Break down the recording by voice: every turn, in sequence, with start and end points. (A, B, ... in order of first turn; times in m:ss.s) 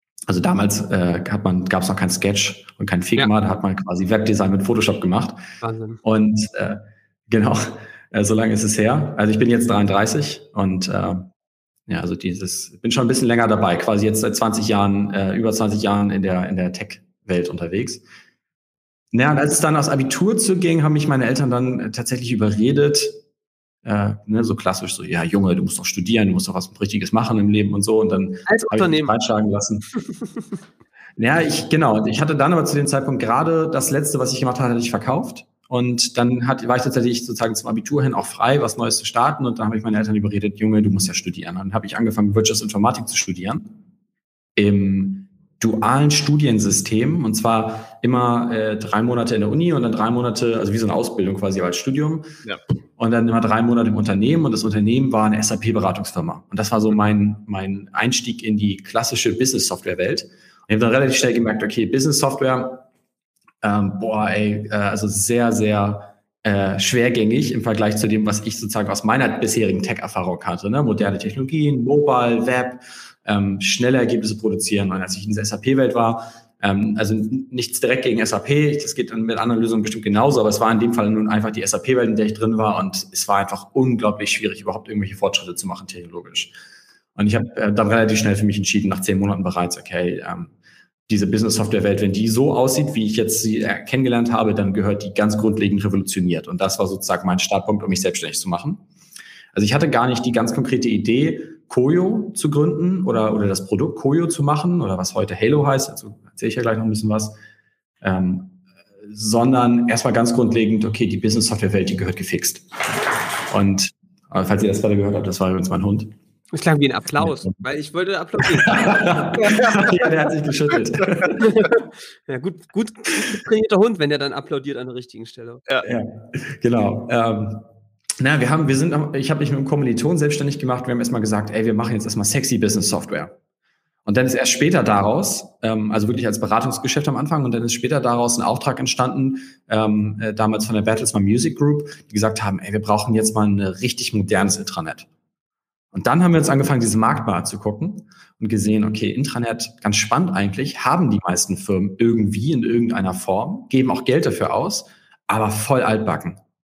0:00.3-0:05.4 A
0:05.6-0:06.0 B
0:06.0-0:11.3 A
0:11.9-0:18.0 A
0:19.1-0:23.2 A
0:23.8-0:29.9 A
0:28.5-0:29.2 B
0:31.2-0:43.7 A
0:44.6-0:52.3 A
0:53.0-1:02.8 A
1:03.6-1:26.5 A
1:27.2-1:30.5 A
1:31.1-1:38.8 A
1:39.5-1:47.4 A
1:48.0-1:52.7 A
1:53.5-1:56.1 A
1:56.5-2:00.1 B
1:57.2-1:57.6 A
1:58.4-2:01.5 A
2:01.4-2:05.6 B
2:05.8-2:07.7 A
2:08.2-2:13.4 A
2:14.1-2:25.1 A
2:25.9-2:36.4 A